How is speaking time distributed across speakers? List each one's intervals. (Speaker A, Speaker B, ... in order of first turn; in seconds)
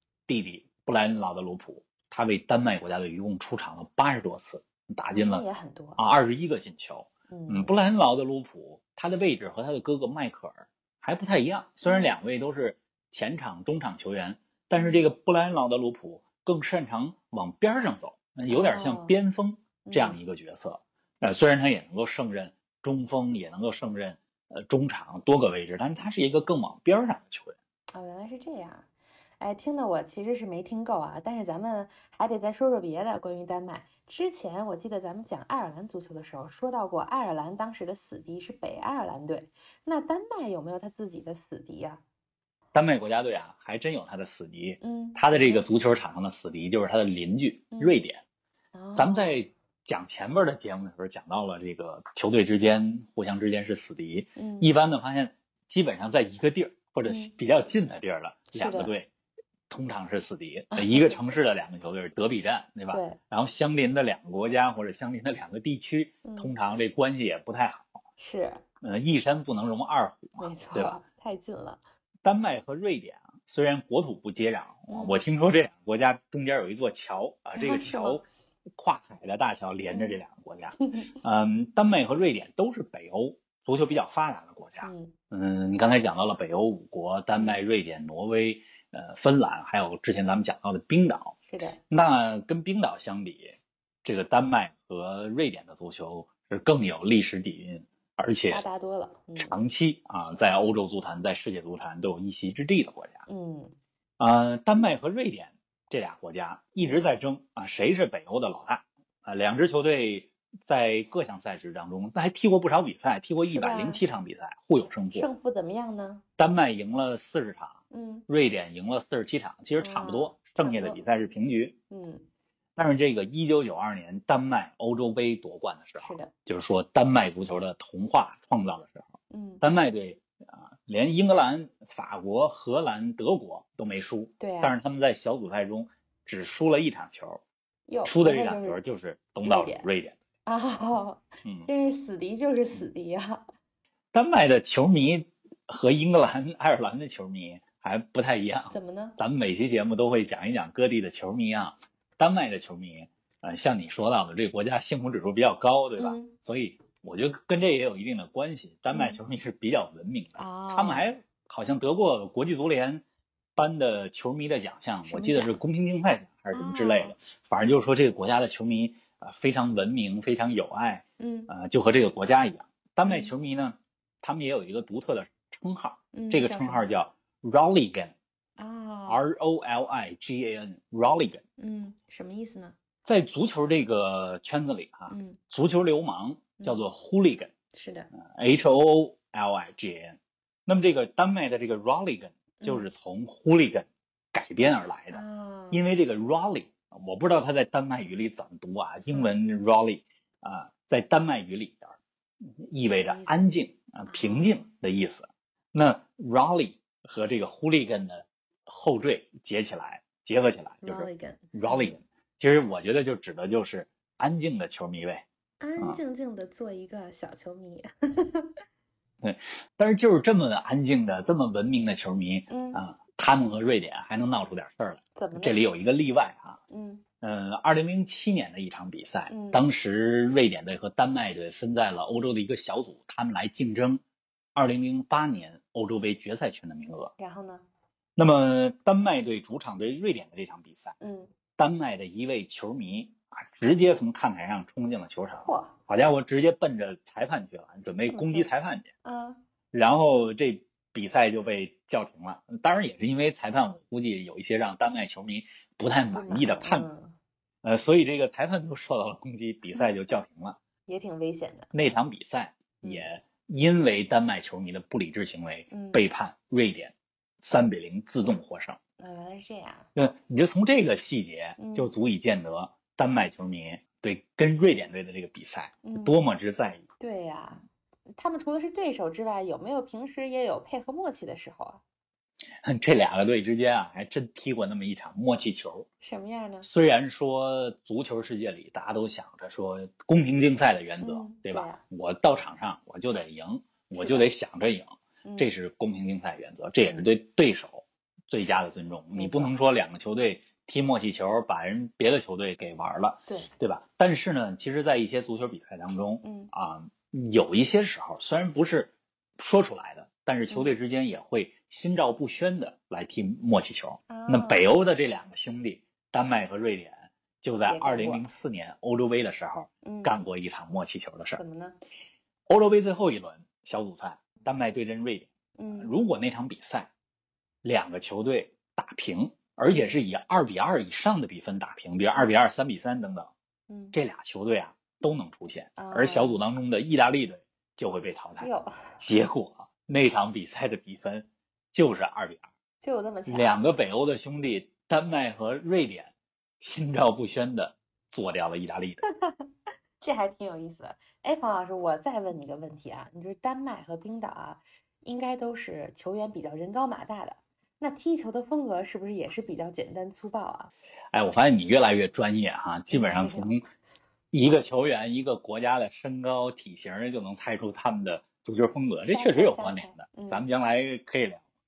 Speaker A: 0.3-5.5, 6.0-27.6, 42.7-48.2, 49.0-59.1, 59.7-68.0, 68.8-71.0, 72.2-78.2, 78.8-91.4, 91.9-98.7, 99.4-103.2, 104.2-115.3, 116.4-121.8, 122.8-137.4, 138.1-140.2, 144.1-163.0, 163.6-178.2, 179.1-181.4, 183.1-187.5, 188.1-202.0, 202.6-215.2, 219.2-226.6, 227.2-234.0, 234.6-237.1, 238.2-241.0, 241.6-248.9, 249.7-256.9, 257.6-260.6, 261.7-268.8, 269.9-276.8, 282.6-285.9, 286.6-321.4, 322.5-326.9, 327.6-333.3, 333.9-342.5, 343.3-349.0, 361.1-363.6, 364.3-371.4
Speaker B: 5.1-6.0, 7.3-7.8, 11.8-12.2, 14.8-15.1, 18.5-19.1, 19.9-20.2, 27.9-28.9, 29.4-42.0, 44.8-45.7, 47.7-48.0, 48.7-49.4, 54.4-54.7, 57.1-57.3, 58.5-58.9, 60.7-61.2, 62.9-63.2, 66.2-66.5, 68.2-68.7, 70.4-71.8, 74.9-75.2, 77.6-78.2, 79.9-80.2, 80.8-81.2, 84.8-85.2, 87.3-87.6, 91.5-91.8, 98.5-99.6, 103.3-103.8, 106.8-107.1, 113.4-114.0, 115.1-116.2, 117.9-118.3, 119.8-121.0, 121.9-122.3, 126.0-126.3, 129.3-129.6, 134.4-134.8, 137.9-138.8, 139.4-139.9, 140.5-143.4, 148.7-149.2, 156.0-156.3, 158.9-159.2, 160.4-161.1, 165.1-165.6, 166.5-167.2, 171.2-171.5, 173.1-173.3, 176.1-177.0, 178.6-179.2, 181.6-182.8, 185.1-185.4, 187.7-188.1, 192.6-192.9, 195.1-195.8, 199.1-199.4, 202.9-203.5, 204.1-204.6, 210.8-212.0, 215.6-218.5, 222.5-222.8, 225.2-225.7, 226.7-227.0, 229.3-229.7, 237.2-237.7, 241.0-241.3, 245.3-245.8, 248.1-248.5, 249.0-249.4, 256.1-257.2, 260.9-261.7, 262.8-263.1, 265.7-266.1, 269.0-269.9, 271.6-271.9, 275.8-276.2, 277.0-277.6, 278.2-281.8, 286.0-286.7, 291.0-291.8, 293.9-294.3, 295.2-295.5, 299.1-299.6, 306.2-306.5, 314.1-314.8, 317.6-318.3, 319.8-320.1, 321.4-321.8, 325.6-325.9, 329.7-330.0, 333.7-333.9, 335.8-336.4, 338.4-339.0, 342.8-343.8, 350.0-360.7, 362.9-363.6, 369.0-370.5